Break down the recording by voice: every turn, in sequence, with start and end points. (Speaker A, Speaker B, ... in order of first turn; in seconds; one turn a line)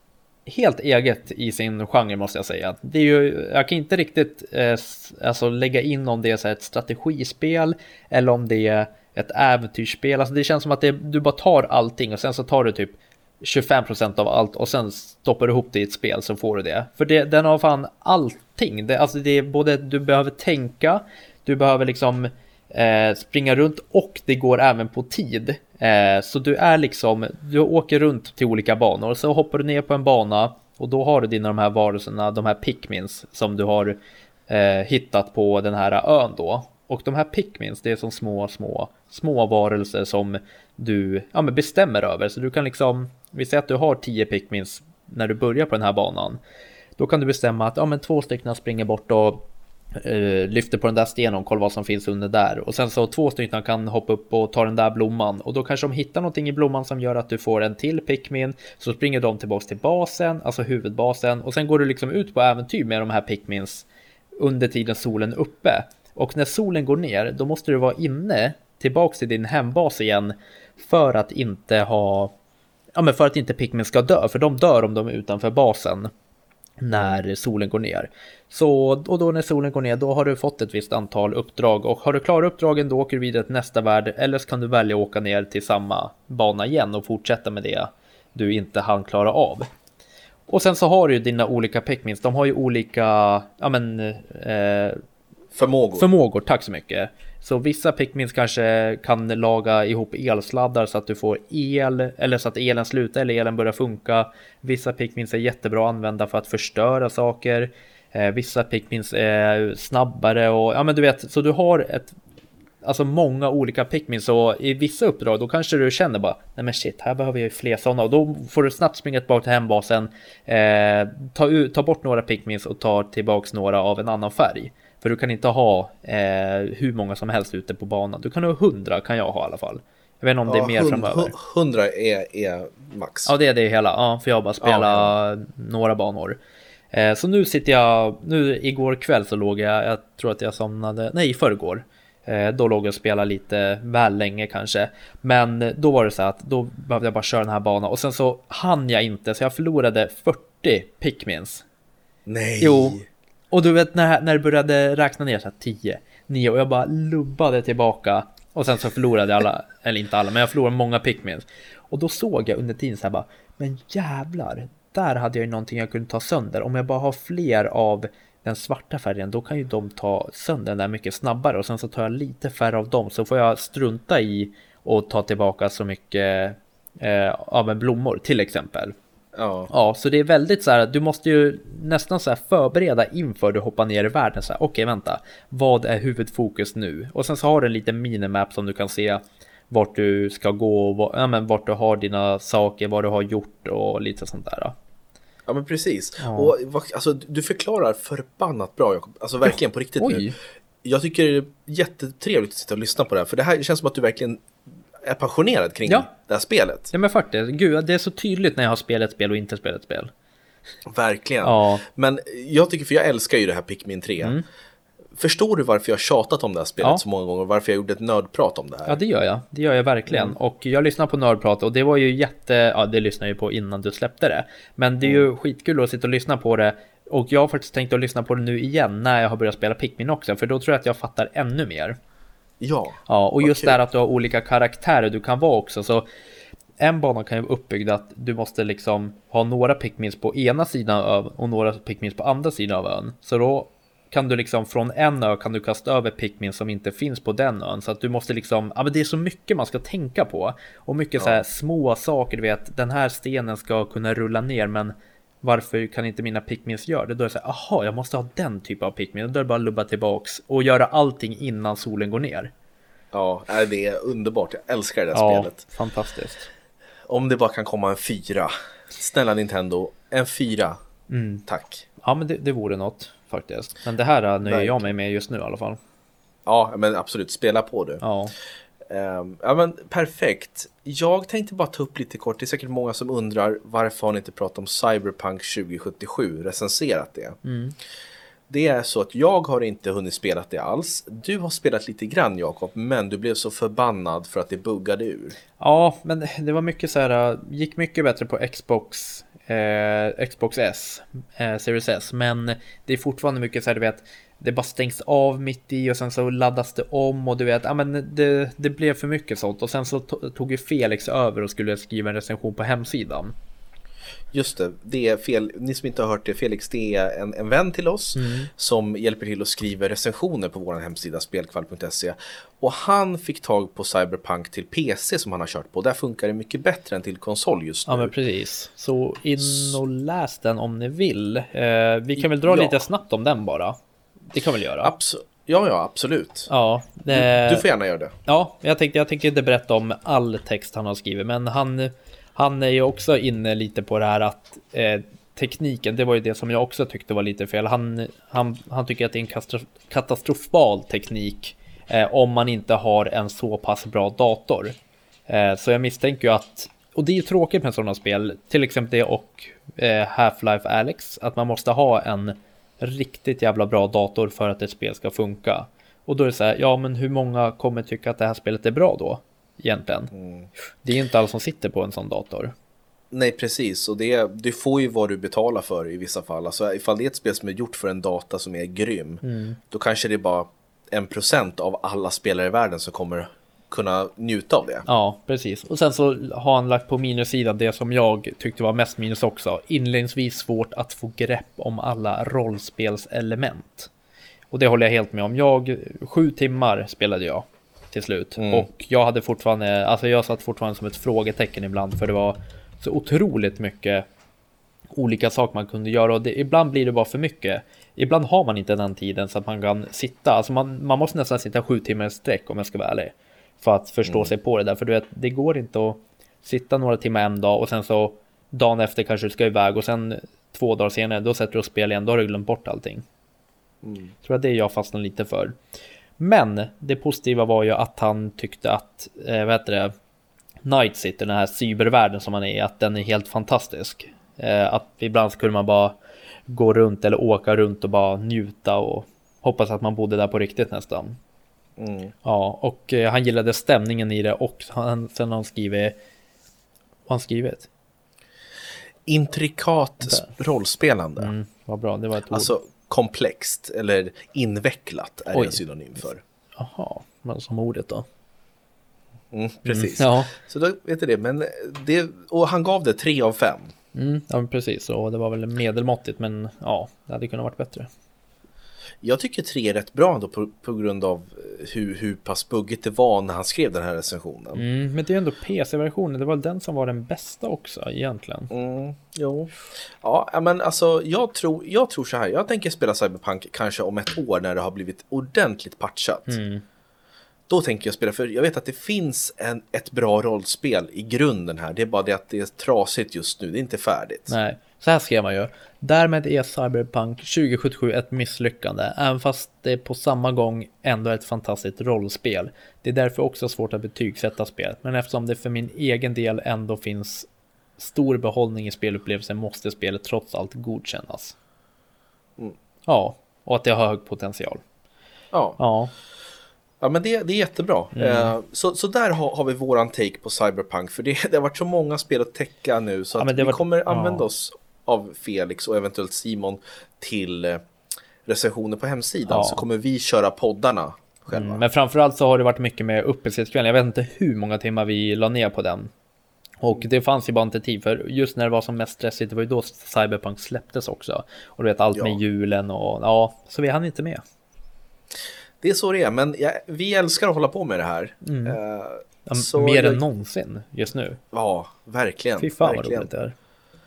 Speaker A: 0.5-46.4
Speaker A: 47.0-63.9
Speaker A: 64.4-72.3
Speaker A: 73.0-76.1
Speaker A: 76.8-89.7
Speaker B: 76.9-77.2
Speaker A: 90.5-95.0
Speaker B: 95.5-96.1
Speaker A: 96.0-112.1
Speaker A: 112.8-131.3
Speaker B: 130.5-133.3
Speaker A: 133.3-136.4
Speaker B: 134.6-135.1
Speaker A: 136.9-151.6
Speaker B: 152.3-153.1
Speaker A: 152.6-178.9
Speaker B: 179.3-179.7
Speaker A: 179.7-194.7
Speaker B: 195.5-200.3
Speaker A: 196.2-196.5
Speaker A: 199.5-200.4
Speaker B: 200.8-204.4
Speaker B: 205.0-206.9
Speaker A: 206.9-210.1
Speaker B: 210.9-214.4
Speaker A: 211.4-211.8
Speaker B: 215.2-219.0
Speaker A: 218.9-232.0
Speaker B: 220.1-220.4
Speaker B: 232.6-233.8
Speaker A: 233.1-236.1
Speaker A: 236.8-262.5
Speaker B: 251.2-251.4
Speaker B: 263.1-265.6
Speaker A: 265.1-266.5
Speaker B: 267.1-270.8
Speaker A: 271.1-271.4
Speaker B: 271.5-271.9
Speaker A: 272.0-275.8
Speaker B: 274.4-274.9
Speaker B: 276.4-278.0
Speaker A: 278.0-278.3
Speaker B: 278.9-287.4
Speaker A: 287.4-287.7
Speaker B: 288.5-295.4
Speaker A: 295.6-313.3
Speaker B: 314.3-328.1
Speaker A: 318.2-318.5
Speaker A: 327.9-333.8
Speaker B: 329.4-329.8
Speaker B: 332.2-332.8
Speaker A: 334.3-334.9
Speaker B: 334.8-336.5
Speaker A: 336.5-337.6
Speaker B: 337.1-338.1
Speaker A: 338.3-354.8
Speaker A: 355.3-370.1
Speaker B: 370.1-370.5
Speaker A: 370.8-372.5
Speaker B: 373.1-384.9
Speaker A: 379.2-379.6
Speaker A: 384.9-393.9
Speaker A: 394.5-404.1
Speaker B: 398.4-398.7
Speaker A: 404.9-423.1
Speaker B: 414.1-414.3
Speaker B: 423.8-424.1
Speaker A: 424.2-425.6
Speaker A: 426.2-429.9
Speaker A: 430.6-441.2
Speaker B: 441.8-442.1
Speaker A: 442.2-445.9
Speaker A: 447.1-447.7
Speaker B: 449.1-451.3
Speaker A: 450.0-450.3
Speaker A: 451.2-452.5
Speaker B: 452.3-456.2
Speaker A: 455.3-455.6
Speaker A: 456.6-458.1
Speaker B: 459.3-463.7
Speaker A: 459.7-460.3
Speaker A: 463.9-467.9
Speaker B: 469.0-474.6
Speaker A: 474.6-478.5
Speaker B: 478.5-486.4
Speaker A: 486.3-486.6
Speaker B: 487.5-494.3
Speaker A: 494.3-507.3
Speaker A: 507.8-511.4
Speaker A: 512.9-514.6
Speaker B: 515.3-515.6
Speaker A: 515.6-515.9
Speaker B: 516.8-527.6
Speaker A: 518.0-518.3
Speaker A: 523.2-524.2
Speaker B: 528.3-531.6
Speaker A: 529.3-529.6
Speaker A: 531.3-535.9
Speaker A: 536.6-544.2
Speaker B: 545.6-550.0
Speaker A: 548.2-548.6
Speaker A: 549.3-551.2
Speaker B: 551.3-553.1
Speaker A: 552.4-553.3